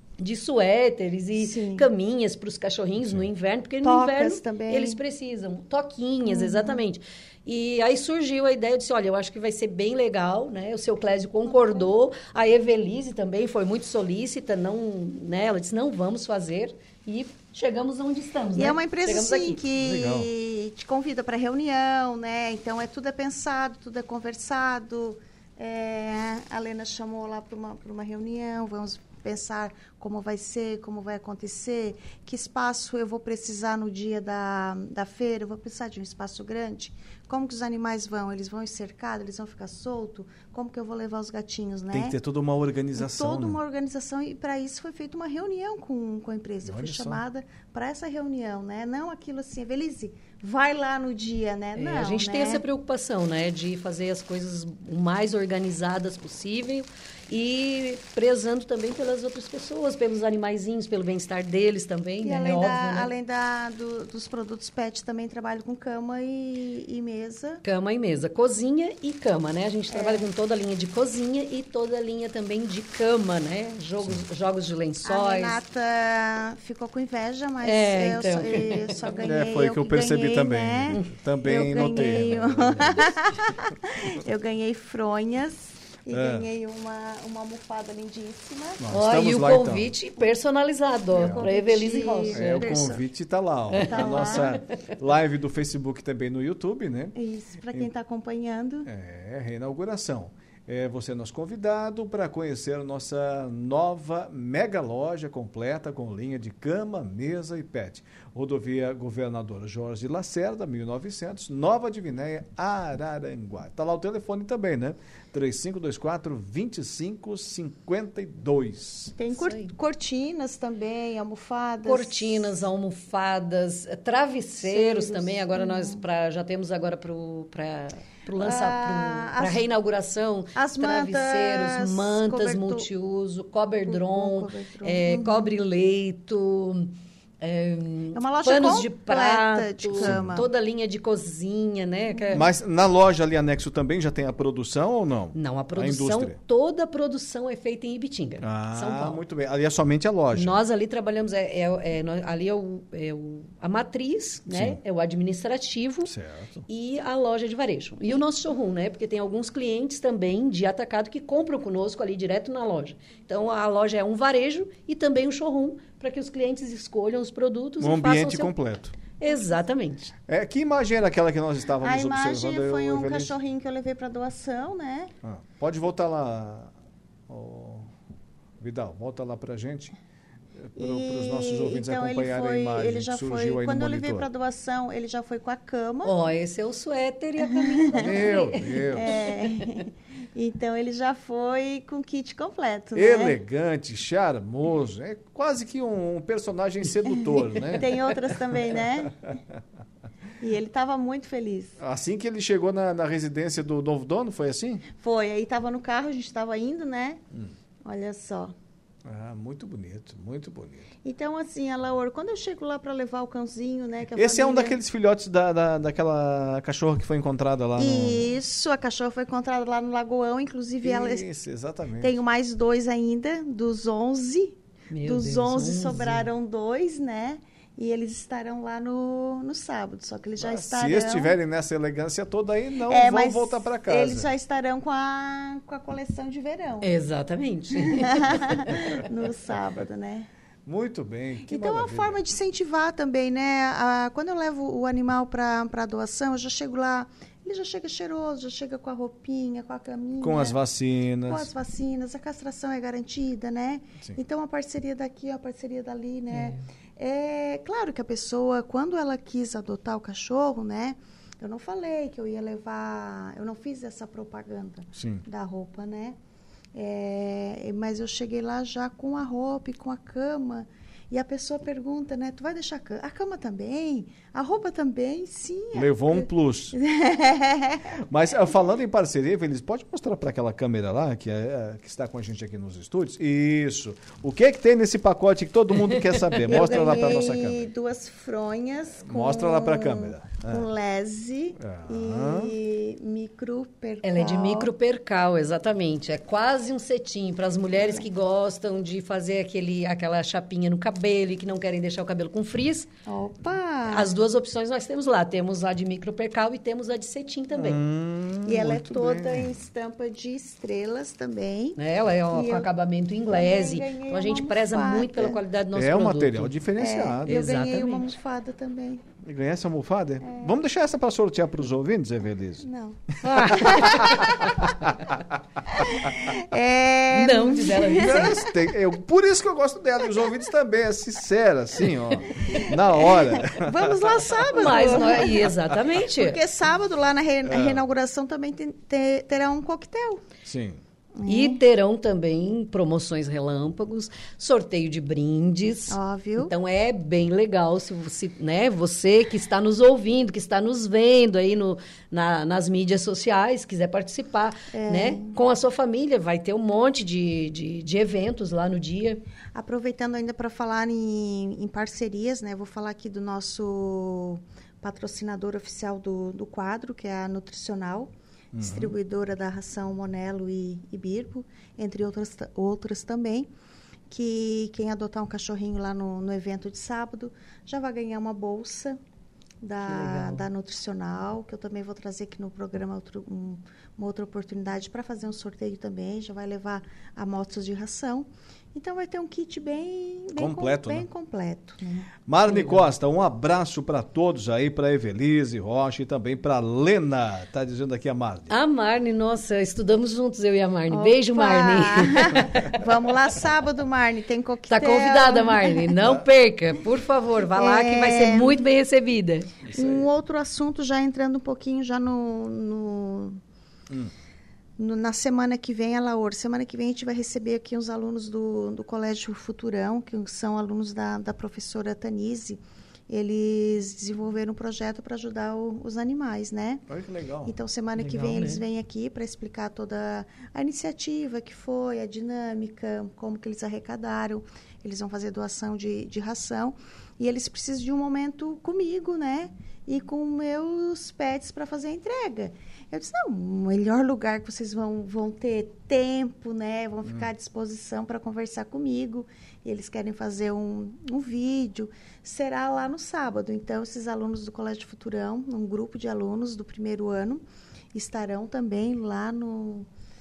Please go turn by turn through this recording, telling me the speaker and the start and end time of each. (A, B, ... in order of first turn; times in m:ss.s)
0:00.2-0:19.6 A
0:01.4-0:01.9 B
0:03.8-0:05.0 B
0:06.3-0:06.8 B
0:11.5-0:11.9 B
0:18.6-0:42.2 B
0:19.8-0:20.3 C
0:41.9-0:43.6 C
0:43.0-0:52.6 B
0:46.6-0:47.2 C
0:51.8-1:03.1 A
1:02.2-1:07.6 B
1:07.6-1:15.6 A
1:09.9-1:10.3 B
1:15.0-1:28.8 B
1:17.6-1:19.2 A
1:19.3-1:23.0 C
1:21.9-1:22.2 A
1:26.1-1:26.5 C
1:28.8-1:29.9 C
1:28.9-1:32.7 A
1:31.2-1:31.4 C
1:31.2-1:33.0 B
1:32.3-1:37.2 C
1:33.7-1:34.6 A
1:33.8-1:34.5 B
1:37.2-1:38.9 B
1:38.9-1:59.2 C
1:59.2-2:02.5 B
1:59.3-1:59.7 A
2:01.8-2:22.5 A
2:04.6-2:06.0 B
2:08.4-2:09.6 B
2:10.6-2:12.9 B
2:13.9-2:15.5 B
2:18.1-2:20.5 B
2:20.0-2:20.4 C
2:22.4-2:26.4 C
2:25.3-2:29.2 A
2:28.4-2:30.6 C
2:30.3-2:36.1 A
2:34.5-2:34.8 C
2:36.1-2:36.6 C
2:36.7-2:48.5 A
2:47.8-2:49.0 C
2:49.2-2:50.1 A
2:50.3-2:53.3 C
2:51.8-2:55.1 B
2:55.2-2:56.7 C
2:57.3-2:57.9 C
2:58.6-3:00.0 C
3:00.6-3:04.3 C
3:00.8-3:06.1 B
3:06.0-3:09.6 A
3:07.6-3:08.2 B
3:08.0-3:09.2 C
3:09.0-3:13.4 B
3:13.0-3:18.0 C
3:17.7-3:19.2 B
3:20.4-3:21.8 B
3:21.8-3:24.8 C
3:25.0-3:27.2 B
3:27.8-3:28.5 B
3:29.0-3:30.9 C
3:31.0-3:34.8 B
3:34.2-3:38.3 C
3:37.8-3:41.3 B
3:40.8-3:42.2 C
3:42.0-3:51.4 B
3:44.9-3:46.3 A
3:50.4-3:54.3 C
3:52.9-3:56.9 B
3:56.8-3:58.2 A
3:57.9-4:00.3 B
4:00.7-4:02.2 C
4:01.5-4:10.6 B
4:10.2-4:11.5 C
4:11.3-4:26.2 B
4:24.9-4:25.2 C
4:26.7-4:37.9 B
4:35.7-4:36.8 C
4:38.1-4:47.7 C
4:45.9-4:47.2 A
4:46.5-4:54.7 B
4:49.0-4:50.7 C
4:51.6-4:52.5 C
4:54.0-5:02.9 A
4:57.7-4:58.1 B
5:03.1-5:04.1 B
5:03.9-5:07.8 A
5:07.5-5:09.5 C
5:08.5-5:11.8 B
5:11.8-5:16.5 A
5:12.3-5:12.7 B
5:13.3-5:15.4 B
5:15.7-5:17.5 C
5:16.8-5:19.1 B
5:17.2-5:18.1 A
5:19.2-5:22.6 C
5:20.2-5:20.5 B
5:22.6-5:24.6 B
5:23.2-5:24.3 A
5:23.6-5:25.2 C
5:25.8-5:28.5 B
5:27.1-5:28.4 A
5:28.0-5:34.2 C
5:33.0-5:35.4 B
5:34.5-5:36.4 A
5:36.1-5:40.2 B
5:37.4-5:37.9 C
5:40.5-5:40.8 C
5:41.2-5:41.6 B
5:41.3-5:59.2 A
5:45.9-5:46.5 B
5:54.7-5:55.3 B
5:59.5-6:13.5 B
6:08.5-6:09.0 C
6:14.1-6:19.0 B
6:19.6-6:32.1 B
6:19.8-6:20.4 A
6:30.4-6:31.1 C
6:32.3-6:38.5 C
6:32.5-6:32.8 A
6:38.5-6:42.8 A
6:40.9-6:46.0 B
6:44.7-6:49.5 A
6:47.6-6:48.6 B
6:49.7-6:50.0 C
6:49.7-6:53.4 B
6:54.8-7:06.8 B
7:06.9-7:07.6 C
7:07.4-7:37.4 B
7:08.0-7:08.6 A
7:27.0-7:27.3 C
7:37.9-7:39.9 B